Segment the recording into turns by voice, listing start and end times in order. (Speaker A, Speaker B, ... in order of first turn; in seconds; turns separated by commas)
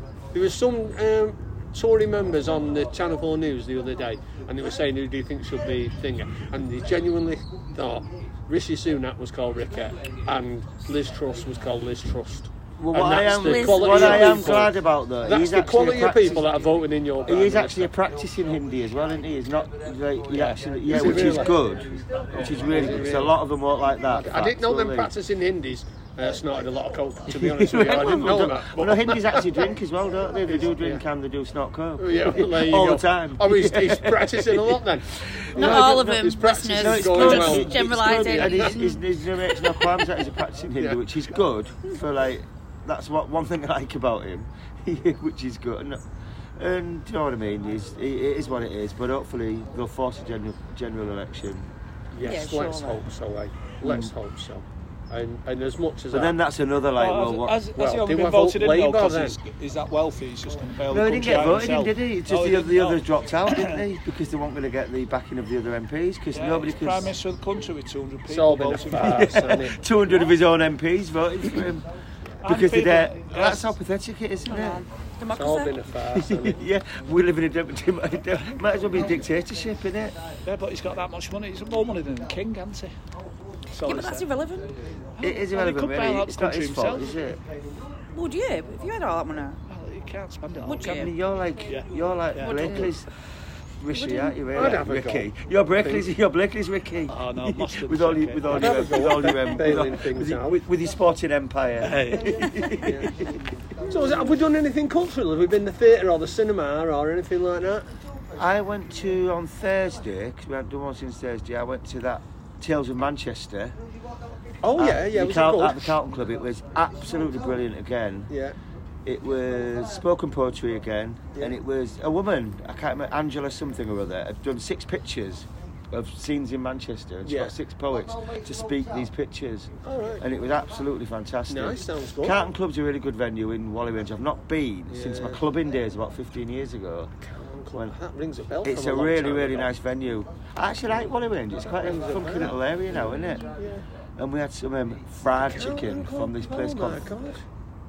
Speaker A: 0.3-17.9, Speaker B: 12.8-16.5, Speaker C: 13.2-14.5, Speaker B: 17.3-25.1, Speaker D: 20.4-21.3, Speaker A: 20.9-21.6, Speaker A: 22.4-23.4, Speaker A: 24.1-29.6, Speaker B: 27.3-46.0, Speaker A: 30.5-31.0, Speaker A: 32.0-38.9, Speaker C: 35.6-39.8, Speaker B: 46.6-51.7, Speaker A: 52.1-56.4, Speaker C: 52.2-53.0, Speaker B: 53.8-54.1, Speaker B: 56.1-57.6, Speaker D: 56.9-63.8, Speaker A: 57.8-59.4, Speaker B: 60.9-67.1, Speaker D: 66.3-69.5, Speaker A: 68.3-69.8, Speaker B: 69.0-71.8, Speaker D: 72.4-73.7, Speaker B: 72.5-74.8, Speaker C: 74.5-75.7, Speaker A: 75.3-76.6, Speaker B: 76.1-80.2, Speaker D: 80.5-82.9, Speaker D: 83.8-84.3, Speaker C: 83.8-84.7, Speaker D: 85.2-87.3, Speaker B: 85.2-87.4, Speaker C: 88.1-89.6, Speaker D: 89.7-91.1, Speaker C: 90.6-91.1, Speaker B: 90.8-93.1, Speaker D: 91.7-92.9, Speaker C: 92.4-92.9, Speaker B: 93.8-103.4, Speaker C: 93.9-94.4, Speaker A: 94.5-95.3, Speaker D: 97.1-99.1, Speaker A: 98.5-100.6, Speaker D: 101.8-102.8, Speaker A: 102.8-103.1, Speaker A: 103.9-107.9, Speaker B: 108.4-113.8, Speaker A: 114.6-115.9, Speaker B: 114.8-118.3, Speaker A: 118.3-118.6, Speaker B: 119.0-137.1, Speaker A: 127.2-127.5, Speaker A: 129.8-130.2, Speaker A: 131.5-132.4, Speaker A: 134.9-135.4, Speaker A: 137.2-139.7, Speaker B: 138.7-143.6, Speaker A: 141.6-142.5, Speaker A: 143.6-143.8, Speaker B: 144.2-147.2, Speaker A: 145.4-147.4